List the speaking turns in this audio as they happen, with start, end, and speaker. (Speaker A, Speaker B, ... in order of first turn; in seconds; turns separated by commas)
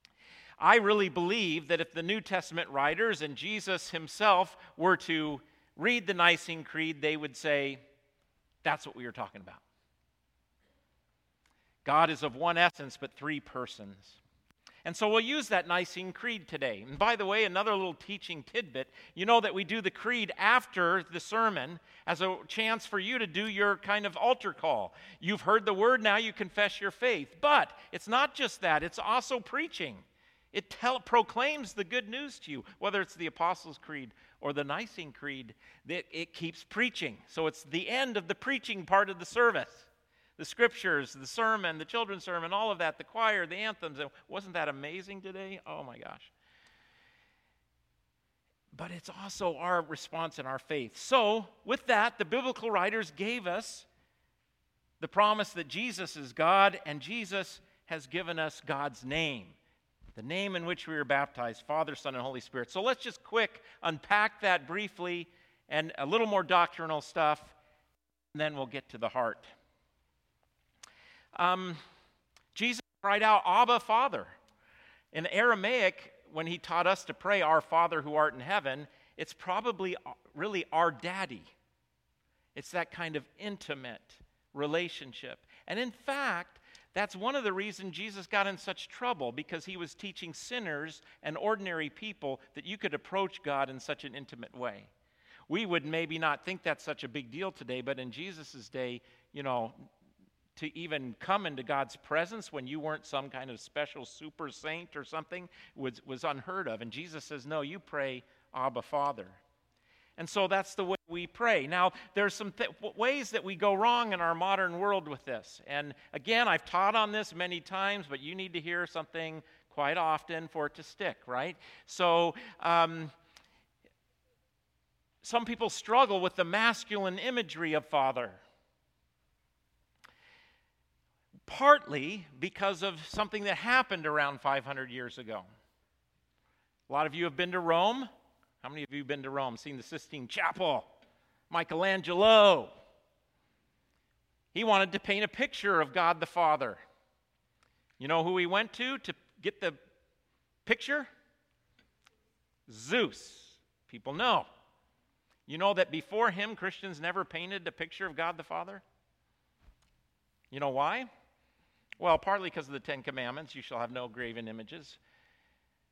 Speaker A: 0.6-7.8, Speaker A: 8.6-9.6, Speaker A: 11.8-14.2, Speaker A: 14.8-46.3, Speaker A: 48.7-53.9, Speaker A: 55.0-59.6, Speaker A: 60.1-67.5, Speaker A: 68.3-69.5, Speaker A: 71.3-71.8, Speaker A: 72.5-74.3, Speaker A: 75.1-81.5, Speaker A: 82.5-94.9, Speaker A: 95.5-99.9, Speaker A: 100.6-109.4, Speaker A: 110.2-123.1, Speaker A: 125.2-128.4, Speaker A: 131.5-135.5, Speaker A: 136.9-138.1, Speaker A: 138.6-140.9, Speaker A: 141.5-142.7, Speaker A: 144.5-146.8, Speaker A: 148.0-149.8, Speaker A: 150.7-151.1, Speaker A: 152.7-154.5, Speaker A: 155.5-158.8, Speaker A: 160.5-161.1, Speaker A: 162.0-165.0